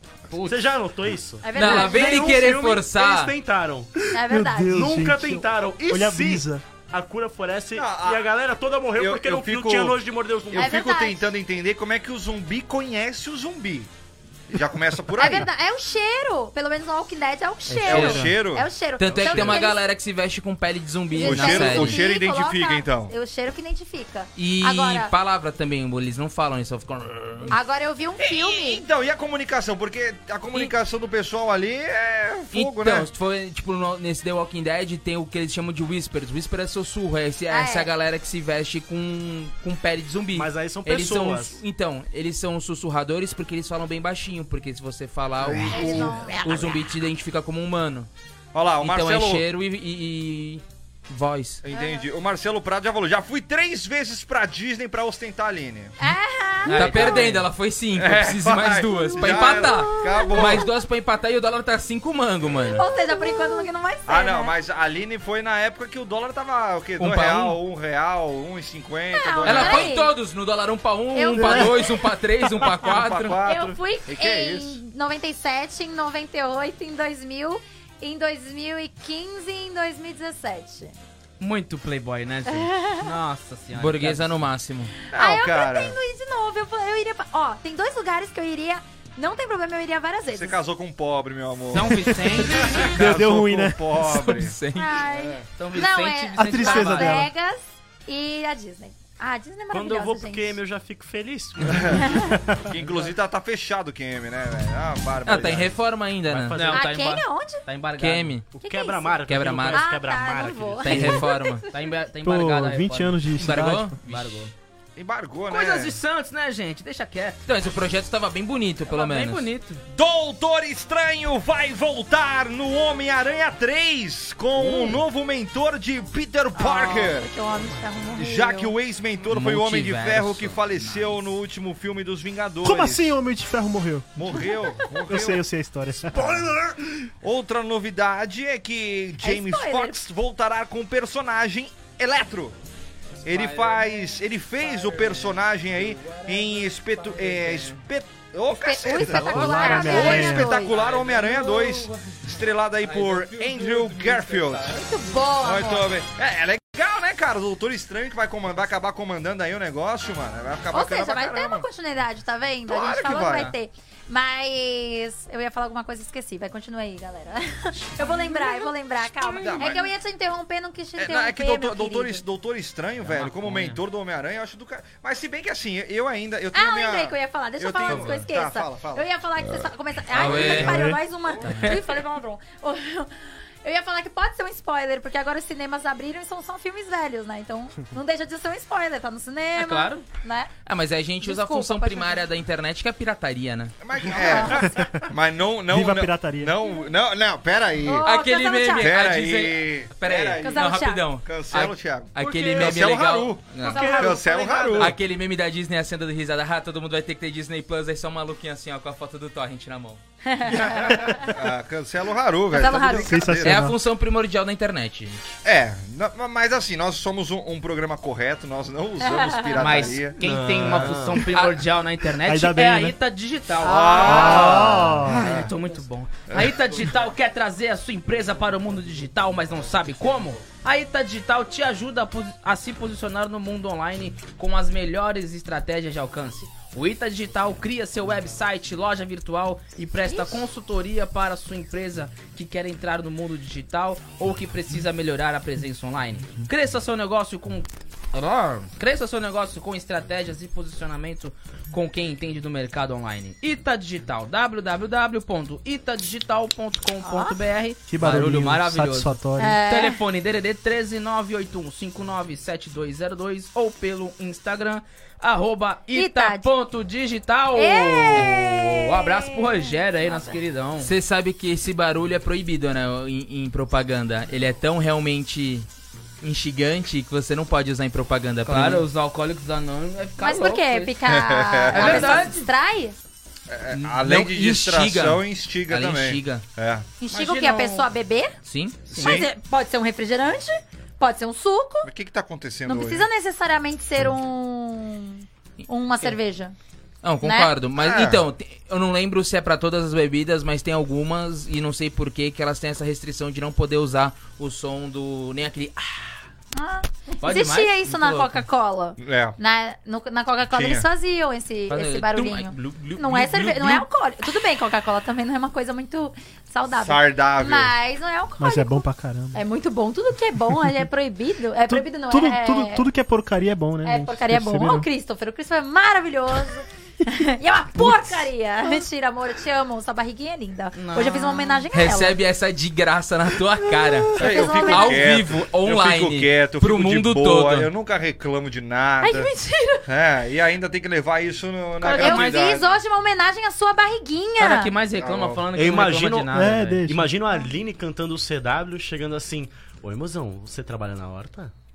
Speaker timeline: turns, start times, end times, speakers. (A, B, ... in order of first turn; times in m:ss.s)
0:00.3-0:00.7 A
0:00.4-0:03.9 B
0:01.4-0:02.4 C
0:01.6-0:03.3 D
0:04.1-0:04.7 C
0:04.2-0:06.6 E
0:04.7-0:10.8 B
0:07.8-0:08.3 F
0:08.9-0:13.9 F
0:10.6-0:11.3 C
0:14.5-0:15.5 F
0:15.2-0:19.8 C
0:17.7-0:18.4 D
0:17.9-0:18.7 F
0:19.0-0:22.0 D
0:19.1-0:19.6 B
0:21.1-0:25.1 C
0:21.2-0:23.1 F
0:24.4-0:27.5 D
0:27.5-0:28.8 C
0:28.2-0:33.1 F
0:32.5-0:48.1 D
0:37.5-0:37.9 C
0:40.3-0:41.6 B
0:45.4-0:46.1 B
0:45.4-0:46.2 F
0:45.7-0:46.8 C
0:48.5-0:49.4 F
0:48.8-0:51.6 D
0:51.6-0:55.9 F
0:51.7-0:52.1 C
0:56.0-0:57.2 C
0:56.7-0:57.5 A
0:56.7-1:02.8 D
0:56.8-0:57.2 F
0:57.9-1:00.7 F
0:59.2-1:00.6 C
1:02.7-1:04.5 C
1:04.1-1:10.0 F
1:07.0-1:07.6 D
1:09.1-1:10.1 C
1:09.5-1:13.4 D
1:11.1-1:11.9 C
1:12.7-1:14.8 F
1:13.4-1:20.9 C
1:21.4-1:24.4 A
1:22.5-1:23.1 C
1:23.8-1:24.9 D
1:25.1-1:26.0 F
1:25.1-1:30.6 C
1:30.3-1:35.5 F
1:31.7-1:32.8 A
1:32.8-1:33.8 E
1:34.0-1:35.0 D
1:34.8-1:40.6 C
1:35.6-1:37.2 A
1:36.4-1:37.3 E
1:39.7-1:42.2 B
1:41.6-1:42.0 F
1:42.0-1:42.3 C
1:42.6-1:45.8 F
1:45.2-1:46.6 D
1:46.3-1:46.8 B
1:46.5-1:48.4 A
1:46.7-1:47.6 C
1:48.0-1:48.5 D
1:48.5-1:51.2 B
1:48.6-1:51.8 C
1:49.3-1:49.9 D
1:50.8-1:51.7 D
1:50.9-1:51.2 E
1:51.7-1:53.3 A
1:52.2-1:54.0 E
1:53.3-1:54.5 D
1:54.0-1:54.5 A
1:55.0-1:56.0 F
1:55.5-1:57.4 A
1:57.5-1:59.5 D
1:58.9-1:59.8 A
1:59.9-2:07.3 F
2:06.5-2:08.7 C
2:08.2-2:13.2 F
2:09.3-2:11.2 D
2:12.6-2:14.3 E
2:14.2-2:15.4 F
2:14.3-2:14.6 C
2:15.1-2:16.4 E
2:17.2-2:22.6 F
2:19.2-2:20.0 C
2:23.2-2:34.8 F
2:23.3-2:23.8 D
2:24.8-2:25.2 D
2:28.5-2:30.8 C
2:28.9-2:30.6 E
2:29.3-2:30.0 A
2:30.6-2:31.7 A
2:30.8-2:31.3 D
2:32.9-2:34.5 D
2:33.9-2:34.3 A
2:34.8-2:35.9 C
2:35.4-2:41.7 F
2:40.7-2:52.2 C
2:42.7-2:43.5 F
2:49.3-2:49.9 F
2:51.0-3:00.9 F
2:53.1-2:53.8 A
2:56.5-3:03.1 C
2:57.9-2:58.3 D
3:00.1-3:00.9 D
3:01.4-3:01.8 D
3:01.5-3:01.8 A
3:03.6-3:10.5 C
3:09.6-3:10.0 A
3:10.7-3:13.8 D
3:11.2-3:12.2 C
3:13.8-3:18.1 F
3:14.1-3:14.7 C
3:14.6-3:15.0 E
3:15.7-3:16.6 E
3:17.8-3:18.9 C
3:18.0-3:24.0 D
3:18.8-3:25.0 F
3:20.4-3:21.0 C
3:22.2-3:22.9 B
3:23.6-3:24.4 C
3:23.7-3:24.8 B
3:24.8-3:30.0 D
3:30.2-3:31.3 C
3:30.8-3:33.7 F
3:32.5-3:33.2 C
3:33.0-3:33.8 E
3:33.4-3:35.4 D
3:35.4-3:40.9 F
3:39.0-3:39.9 C
3:39.6-4:30.9 A
3:40.2-3:41.3 B
3:42.2-3:43.0 E
3:43.6-3:45.6 F
3:44.0-3:45.3 E
3:46.3-3:46.7 F
4:17.0-4:17.4 C
4:17.9-4:19.6 E
4:19.4-4:20.0 C
4:25.9-4:26.5 C
4:27.6-4:30.4 C
4:30.8-4:35.7 D
4:36.2-4:38.8 D
4:38.4-4:41.0 A
4:40.2-4:43.0 C
4:41.1-4:42.3 F
4:41.7-4:42.5 A
4:43.5-4:46.9 F
4:43.7-4:46.4 D
4:47.0-4:48.3 C
4:47.1-4:47.9 A
4:48.5-4:48.8 D
4:48.9-4:49.3 F
4:48.9-4:49.2 A
4:49.0-4:51.9 C
4:51.8-4:53.1 F
4:52.7-4:56.6 C
4:57.0-5:06.1 D
4:57.2-4:57.5 C
4:57.8-4:58.3 F
5:06.5-5:22.9 C
5:07.2-5:08.4 A
5:09.0-5:09.4 F
5:10.5-5:10.9 F
5:11.7-5:13.9 D
5:16.7-5:17.7 F
5:18.4-5:19.4 E
5:21.7-5:24.9 E
5:23.8-5:32.2 C
5:27.8-5:28.0 E
5:30.7-5:31.7 A
5:31.7-5:37.7 D
5:34.2-5:35.1 C
5:34.2-5:39.3 F
5:39.0-5:39.9 C
5:39.8-5:42.8 F
5:41.8-5:42.5 A
5:42.0-5:44.7 C
5:44.4-5:46.8 A
5:45.0-5:45.5 F
5:45.5-5:51.5 B
5:46.3-5:47.1 E